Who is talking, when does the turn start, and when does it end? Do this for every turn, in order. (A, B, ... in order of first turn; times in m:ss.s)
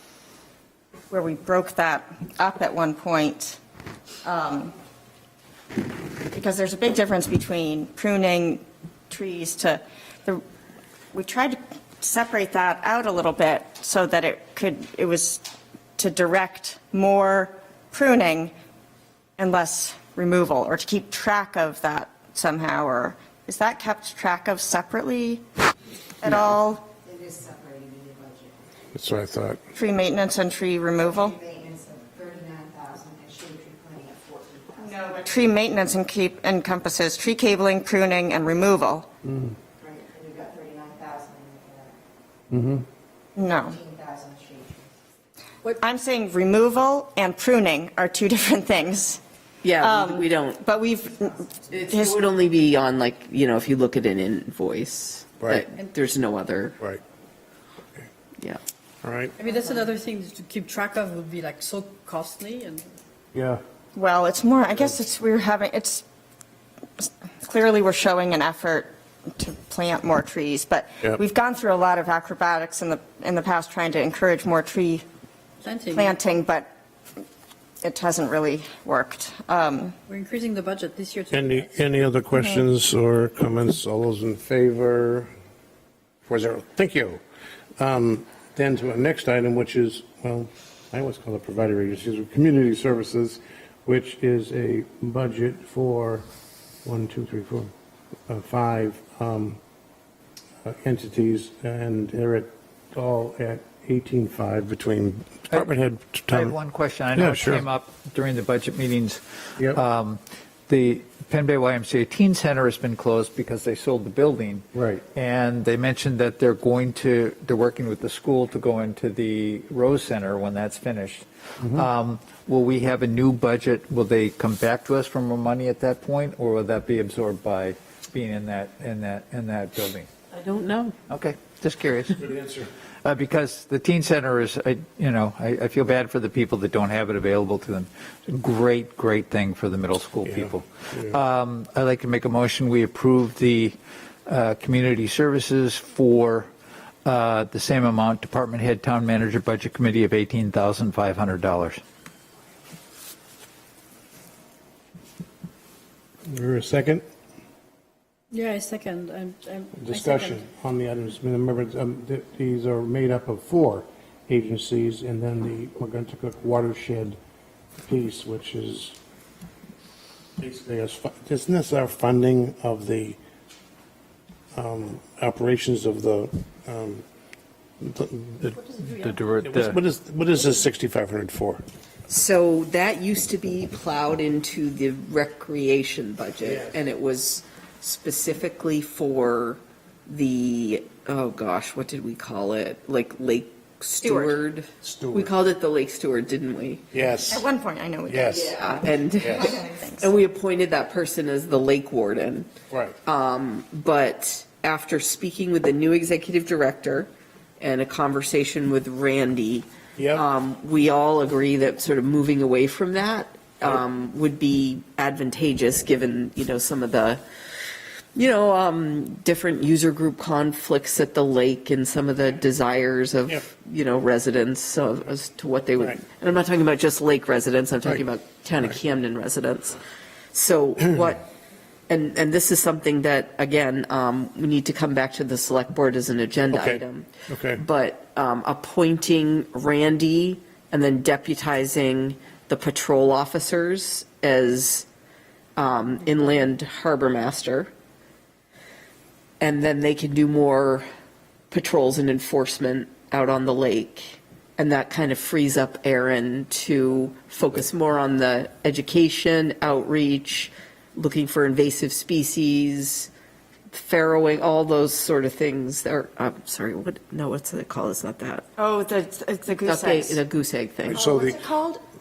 0:01.1-0:03.6 A
0:04.2-0:04.7 A
0:06.3-0:10.4 A
0:11.1-0:15.4 A
0:16.0-0:18.5 A
0:19.4-0:25.4 A
0:26.2-0:26.9 A
0:27.3-0:28.1 B
0:28.9-0:29.6 C
0:29.7-0:31.4 A
0:31.5-0:34.7 B
0:34.8-0:39.1 A
0:39.2-0:39.6 C
0:40.2-0:41.5 B
0:42.5-0:42.8 C
0:43.4-0:43.8 A
0:43.9-0:44.3 B
0:45.8-0:49.2 A
0:49.6-0:50.6 D
0:49.8-0:52.1 A
0:51.7-0:56.8 D
0:59.0-0:59.4 C
0:59.4-1:02.8 E
1:03.3-1:03.6 C
1:03.9-1:06.0 A
1:07.0-1:15.0 A
1:15.6-1:16.2 E
1:15.9-1:16.7 A
1:17.8-1:20.0 A
1:20.1-1:21.7 E
1:21.3-1:25.3 C
1:26.2-1:27.2 C
1:27.8-1:36.2 C
1:36.8-1:37.7 C
1:38.3-1:39.6 C
1:40.6-1:46.6 C
1:46.3-2:10.1 F
1:47.1-1:47.6 C
1:54.7-1:55.0 C
2:10.3-2:10.9 D
2:11.1-2:12.2 F
2:12.2-2:12.7 C
2:13.0-2:26.5 F
2:20.2-2:21.1 C
2:27.0-2:31.8 F
2:36.3-2:37.0 C
2:38.3-2:40.4 E
2:39.8-2:47.2 C
2:47.8-2:49.0 C
2:50.4-2:53.2 C
2:54.5-2:57.0 C
2:57.8-2:58.7 C
2:58.6-2:59.2 E
2:59.0-2:59.8 F
2:59.4-3:01.6 C
3:02.1-3:16.8 D
3:06.4-3:06.7 C
3:14.0-3:14.4 A
3:14.8-3:15.3 C
3:16.9-3:17.5 C
3:17.3-3:20.0 A
3:18.1-3:19.5 C
3:18.2-3:22.5 D
3:22.7-3:23.0 C
3:23.0-3:37.2 D
3:30.0-3:30.2 C
3:38.1-3:49.8 D
3:50.3-3:51.2 D
3:51.9-4:04.8 D
3:56.5-3:57.6 C
4:05.6-4:07.7 D
4:09.4-4:10.8 D
4:11.5-4:23.1 D
4:23.7-4:28.4 D
4:28.6-4:30.2 A
4:29.6-4:31.0 D
4:30.8-4:31.5 C
4:30.9-4:31.8 A